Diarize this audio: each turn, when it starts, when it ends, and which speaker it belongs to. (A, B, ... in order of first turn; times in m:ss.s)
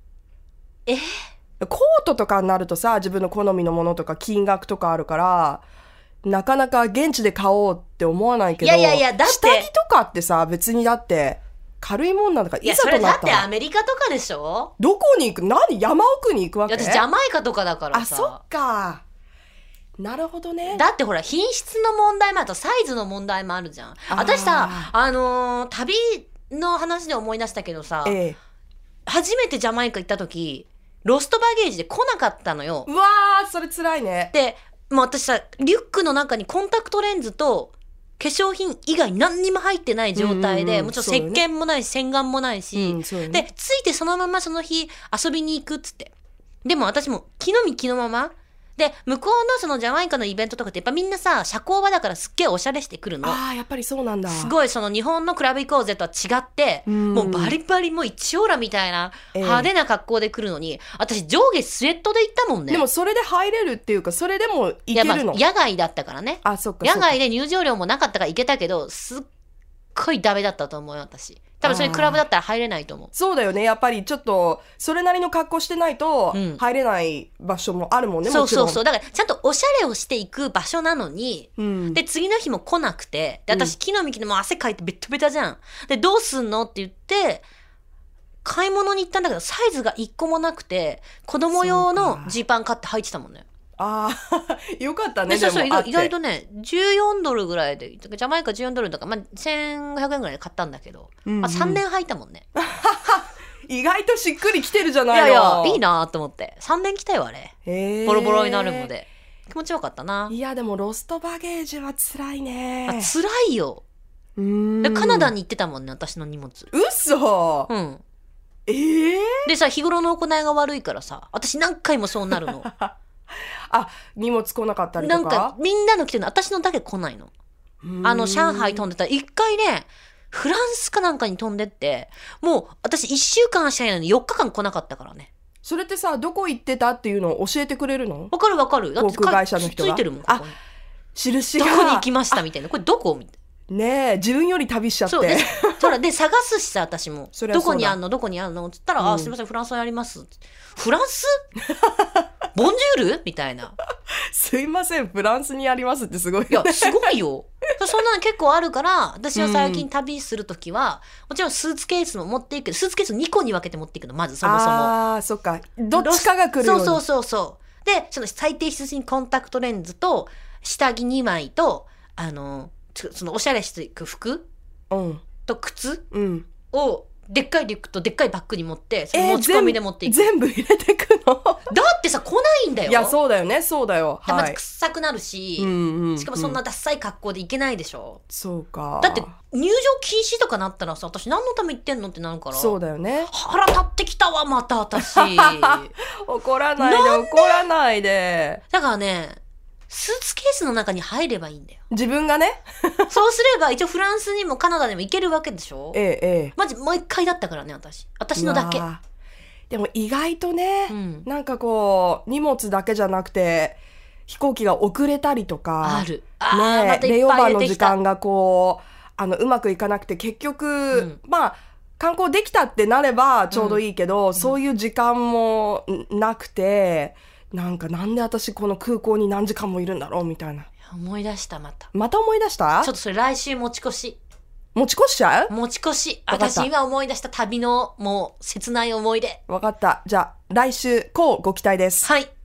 0:00.8-0:01.1 A
0:01.6-0:05.6 B
0:06.2-0:13.5 B
0:08.6-0:09.7 A
0:12.6-0:14.7 A
0:14.8-0:17.0 B
0:16.7-0:18.4 A
0:17.9-0:19.0 B
0:20.0-0:20.8 B
0:20.7-0:28.2 A
0:24.1-0:24.9 B
0:28.0-0:28.4 B
0:29.1-0:32.9 A
0:32.9-0:34.3 B
0:34.3-0:46.1 A
0:40.1-0:41.4 B
0:42.8-0:43.4 B
0:46.6-0:53.4 A
0:53.2-0:54.5 B
0:54.3-1:02.9 A
0:56.9-0:57.6 B
0:59.3-0:59.7 B
1:02.7-1:05.4 B
1:04.9-1:09.2 A
1:06.4-1:07.2 B
1:09.9-1:13.1 A
1:11.6-1:12.2 B
1:13.1-1:18.8 B
1:16.3-1:16.6 A
1:18.2-1:27.4 A
1:21.6-1:22.0 B
1:28.4-1:33.4 A
1:31.6-1:32.3 B
1:33.8-1:36.1 B
1:35.3-1:42.4 A
1:41.2-1:41.8 B
1:42.6-1:45.8 B
1:45.1-1:47.5 A
1:47.6-1:48.9 B
1:48.0-1:50.3 A
1:50.3-1:53.1 B
1:52.9-1:53.8 A
1:54.4-1:55.3 B
1:54.8-1:56.7 A
1:56.7-1:57.7 B
1:57.7-1:58.0 A
1:58.7-1:59.5 B
1:59.4-2:02.7 A
2:02.6-2:02.9 B
2:03.7-2:05.5 B
2:05.0-2:07.3 A
2:07.8-2:08.8 B
2:08.0-2:15.3 A
2:15.6-2:18.3 B
2:18.3-2:20.6 A
2:19.0-2:20.5 B
2:21.2-2:22.4 B
2:21.6-2:23.3 A
2:23.7-2:26.0 B
2:25.1-2:31.4 A
2:27.3-2:28.0 B
2:29.0-2:29.3 B
2:31.8-2:32.2 B
2:32.5-2:33.8 A
2:34.3-2:37.1 B
2:36.5-2:44.9 A
2:39.4-2:39.9 B
2:44.4-2:47.0 B
2:45.9-2:54.4 A
2:54.9-2:55.3 B
2:55.4-2:56.0 A
2:56.1-2:56.5 B
2:56.7-3:00.3 A
2:59.1-3:01.7 B
3:01.7-3:03.2 A
3:02.9-3:04.6 B
3:04.3-3:08.2 A
3:05.6-3:06.6 B
3:08.3-3:09.3 B
3:09.0-3:15.9 A
3:12.5-3:13.3 B
3:15.0-3:18.6 B
3:16.8-3:17.6 A
3:18.7-3:21.8 A
3:21.9-3:23.1 B
3:23.1-3:26.0 A
3:25.9-3:26.5 B
3:26.6-3:28.9 A
3:28.4-3:29.0 B
3:29.7-3:50.7 B
3:30.9-3:31.3 A
3:35.8-3:38.0 A
3:40.9-3:41.2 A
3:43.5-3:43.8 A
3:50.9-3:51.9 A
3:51.9-3:52.9 B
3:52.8-3:54.2 A
3:54.8-3:55.5 B
3:55.5-3:59.4 A
3:56.3-3:56.7 B
3:59.5-4:02.1 B
4:02.0-4:02.3 A